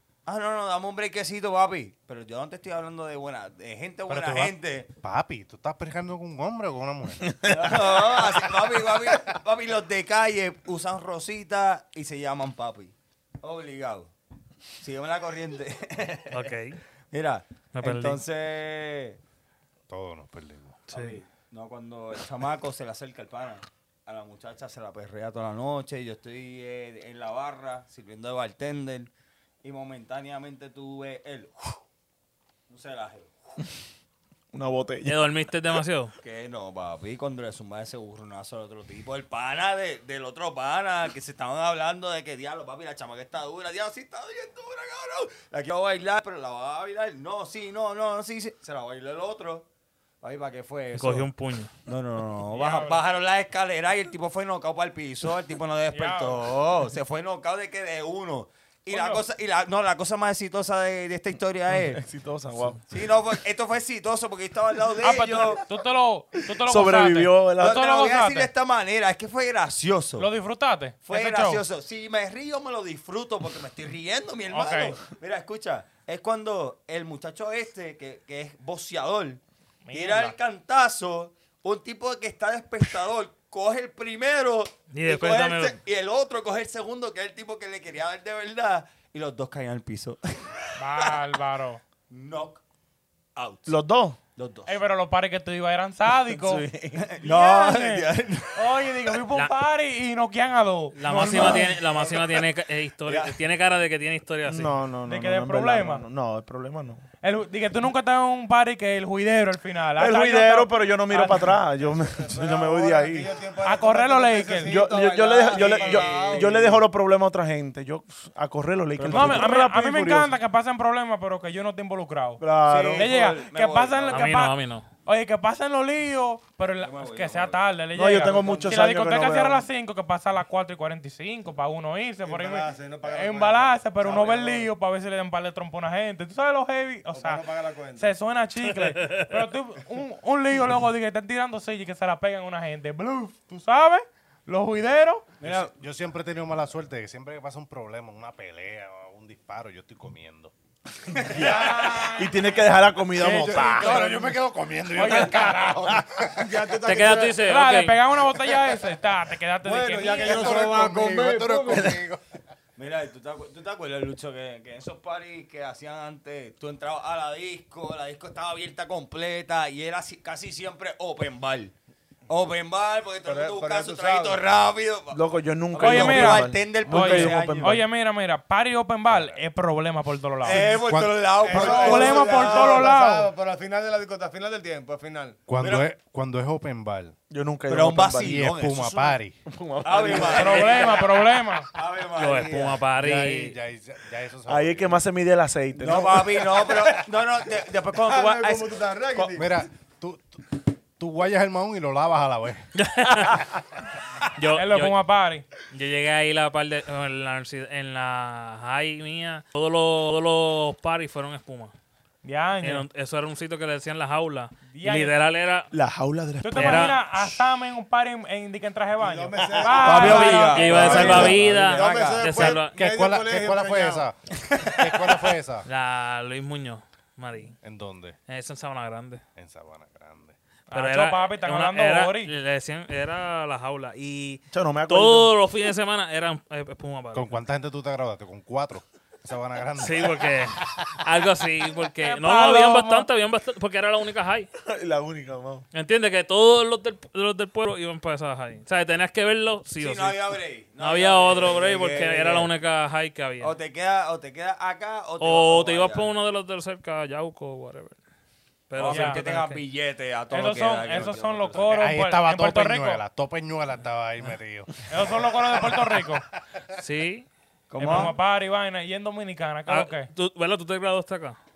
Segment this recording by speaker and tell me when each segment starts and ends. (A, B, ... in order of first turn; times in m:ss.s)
0:00.3-0:04.9 A
0:04.1-0:08.0 B
0:07.4-0:07.7 C
0:07.4-0:14.1 A
0:14.8-0:16.5 A
0:16.3-0:16.8 D
0:17.1-0:19.2 A
0:17.8-0:18.2 D
0:19.9-0:20.8 B
0:20.9-0:21.2 D
0:20.9-0:29.1 A
0:29.6-0:31.8 A
0:32.7-0:33.4 A
0:34.5-0:35.2 C
0:35.0-0:36.1 D
0:36.2-0:49.7 A
0:50.2-0:51.3 A
0:51.0-0:51.7 D
0:51.9-1:02.0 A
0:52.5-0:53.0 E
0:55.9-0:56.4 E
0:58.9-0:59.2 E
1:01.7-1:02.8 C
1:02.9-1:05.7 A
1:05.0-1:08.5 E
1:06.6-1:07.8 C
1:07.6-1:10.3 A
1:10.2-1:11.6 E
1:11.1-1:19.4 A
1:14.5-1:15.0 E
1:19.8-1:20.4 E
1:19.9-1:31.2 A
1:24.9-1:25.8 D
1:30.8-1:31.8 E
1:32.1-1:32.6 A
1:33.4-1:33.8 A
1:33.7-1:34.2 C
1:34.4-1:34.8 A
1:34.7-1:36.6 E
1:36.3-1:37.1 C
1:37.0-1:38.8 A
1:37.2-1:41.7 E
1:41.0-1:44.7 D
1:41.1-1:41.7 C
1:42.0-1:42.4 A
1:43.0-1:43.4 A
1:44.5-1:47.0 C
1:45.1-1:46.0 E
1:47.2-1:51.6 E
1:50.0-1:53.3 C
1:51.8-1:56.7 F
1:53.6-1:54.9 E
1:54.7-2:00.4 C
1:55.5-1:56.6 A
1:59.0-1:59.5 A
1:59.1-2:25.3 E
2:02.4-2:03.1 C
2:02.7-2:04.3 A
2:04.1-2:04.9 D
2:06.8-2:07.6 A
2:08.0-2:09.7 C
2:08.2-2:08.7 A
2:12.2-2:14.7 F
2:17.1-2:18.2 F
2:18.8-2:19.3 D
2:25.4-2:25.7 A
2:25.4-2:30.5 B
2:31.3-2:34.1 C
2:31.3-2:32.6 E
2:33.2-2:34.3 E
2:33.2-2:36.6 B
2:34.9-2:35.7 E
2:36.4-2:37.4 F
2:36.8-2:38.0 D
2:37.4-2:40.6 E
2:39.6-2:42.0 F
2:40.2-2:42.2 B
2:42.8-2:51.7 A
2:52.3-2:55.2 A
2:53.2-2:54.4 F
2:55.1-2:57.8 C
2:55.7-2:57.8 A
2:55.8-3:00.7 E
2:59.1-2:59.4 B
3:00.4-3:02.9 A
3:00.5-3:01.4 B
3:01.4-3:05.5 F
3:01.5-3:03.3 E
3:05.5-3:07.2 B
3:05.6-3:05.9 A
3:07.3-3:08.4 C
3:07.7-3:09.2 A
3:08.1-3:09.4 B
3:09.5-3:10.6 C
3:09.8-3:12.8 A
3:10.2-3:10.9 F
3:10.3-3:11.7 E
3:12.2-3:13.6 D
3:12.9-3:15.0 B
3:14.5-3:16.5 C
3:15.8-3:19.4 A
3:16.7-3:17.0 B
3:18.0-3:19.5 F
3:19.4-3:22.7 B
3:22.8-3:23.5 D
3:24.4-3:25.0 D
3:24.5-3:25.4 E
3:25.7-3:31.7 D
3:32.2-3:32.9 E
3:32.6-3:35.7 D
3:34.7-3:35.1 E
3:35.7-3:37.0 C
3:36.4-3:41.2 E
3:36.5-3:37.0 D
3:39.0-3:44.1 F
3:39.7-3:42.4 A
3:40.0-3:42.8 D
3:40.7-3:41.6 B
3:42.3-3:45.7 B
3:44.5-3:45.3 A
3:45.7-3:47.6 D
3:47.6-3:48.2 B
3:48.3-3:49.2 D
3:49.4-3:50.4 B
3:50.7-3:52.3 E
3:50.7-3:57.3 D
3:54.5-3:55.3 C
3:57.1-4:00.7 B
3:59.8-4:04.5 D
4:02.0-4:03.1 E
4:04.6-4:05.6 C
4:05.7-4:13.6 D
4:09.8-4:12.5 A
4:13.4-4:16.1 A
4:15.2-4:18.0 D
4:18.7-4:19.6 D
4:18.8-4:21.7 A
4:18.9-4:19.2 E
4:20.3-4:23.0 E
4:21.5-4:26.1 B
4:24.9-4:26.2 E
4:26.8-4:27.3 D
4:27.7-4:28.2 A
4:27.8-4:30.1 E
4:29.7-4:31.4 D